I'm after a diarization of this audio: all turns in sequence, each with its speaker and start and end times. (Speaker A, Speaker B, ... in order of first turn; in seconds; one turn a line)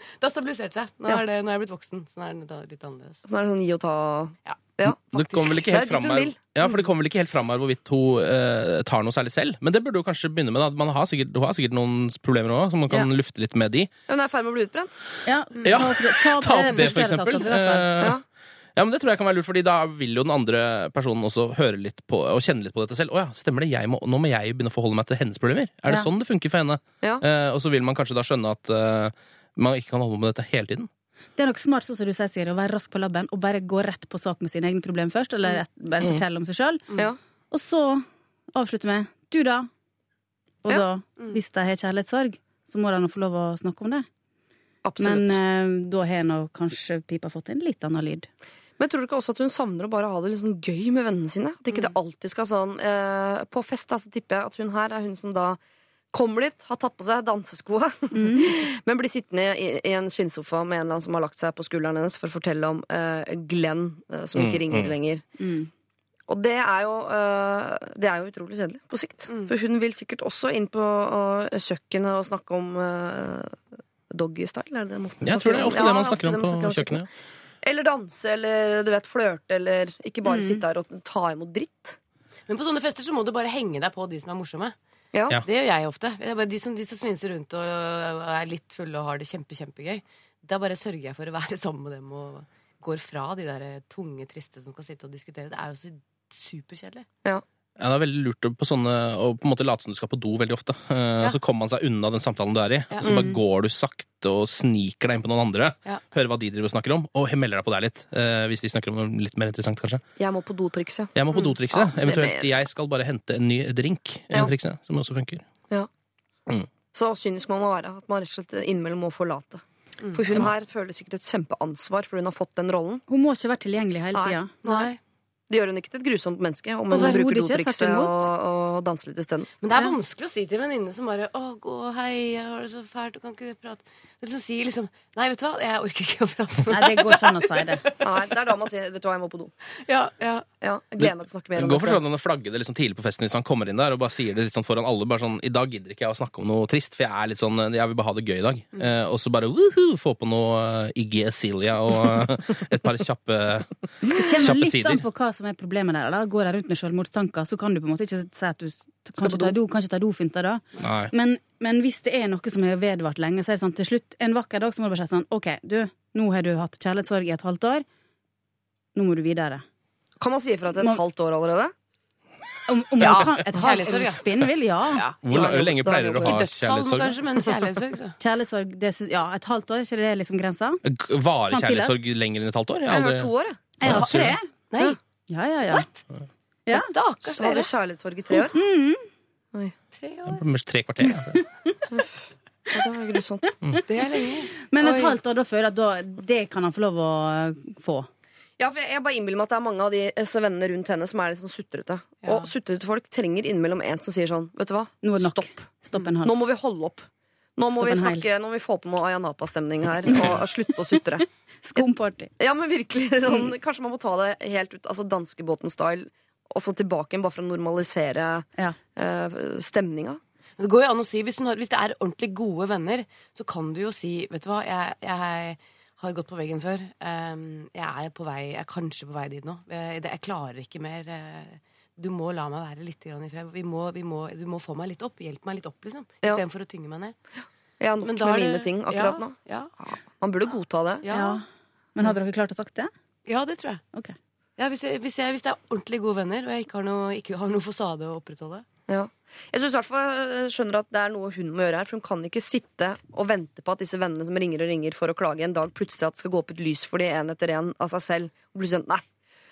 Speaker A: 0.2-3.2
Speaker B: 3.3-6.4
Speaker C: 4.9-13.9
Speaker B: 14.1-15.0
Speaker D: 15.2-17.9
Speaker C: 15.7-18.2
Speaker C: 18.8-30.9
Speaker D: 31.4-36.9
Speaker D: 37.5-39.7
Speaker D: 40.6-44.1
Speaker B: 44.8-45.4
Speaker D: 45.0-48.3
Speaker B: 48.8-55.6
Speaker B: 56.1-65.2
Speaker D: 58.1-58.5
Speaker C: 64.4-64.9
Speaker D: 65.4-65.7
Speaker B: 66.3-73.6
Speaker B: 74.1-77.1
Speaker C: 75.2-77.1
Speaker B: 77.6-82.0
Speaker D: 80.3-80.6
Speaker A: 82.5-84.8
Speaker B: 85.1-85.4
Speaker A: 85.5-97.1
Speaker C: 97.8-110.0
Speaker B: 103.0-103.4
Speaker B: 110.2-111.1
Speaker C: 111.2-115.4
Speaker B: 111.7-112.5
Speaker B: 116.9-123.0
Speaker D: 123.1-124.5
Speaker B: 124.2-124.9
Speaker A: 124.6-125.0
Speaker B: 125.5-129.5
Speaker D: 126.9-128.3
Speaker A: 129.6-138.1
Speaker D: 136.7-137.8
Speaker B: 138.0-139.5
Speaker A: 139.8-140.5
Speaker B: 140.6-142.0
Speaker C: 141.0-153.8
Speaker D: 154.2-167.8
Speaker C: 154.4-155.0
Speaker B: 159.2-159.5
Speaker C: 160.8-161.1
Speaker D: 168.9-169.6
Speaker B: 170.2-171.7
Speaker D: 172.7-175.1
Speaker C: 173.0-173.3
Speaker A: 173.4-174.2
Speaker A: 174.9-175.2
Speaker C: 175.2-177.2
Speaker B: 175.3-176.4
Speaker A: 176.2-178.2
Speaker D: 178.2-180.8
Speaker C: 180.8-183.3
Speaker D: 181.5-181.9
Speaker B: 182.9-183.6
Speaker D: 183.8-185.9
Speaker C: 183.8-184.4
Speaker A: 184.7-185.0
Speaker A: 186.7-187.7
Speaker B: 187.2-188.6
Speaker D: 188.3-189.1
Speaker A: 189.9-190.4
Speaker C: 190.3-191.4
Speaker B: 192.7-193.6
Speaker A: 193.9-195.2
Speaker D: 194.6-198.1
Speaker B: 198.6-205.5
Speaker D: 205.0-206.3
Speaker B: 206.2-211.3
Speaker D: 207.8-208.2
Speaker D: 211.6-212.3
Speaker B: 212.4-220.2
Speaker A: 220.6-237.2
Speaker B: 237.8-241.1
Speaker A: 238.0-239.7
Speaker A: 241.0-241.4
Speaker D: 241.1-241.4
Speaker D: 241.9-242.9
Speaker A: 243.3-243.8
Speaker A: 244.6-248.7
Speaker B: 248.9-259.0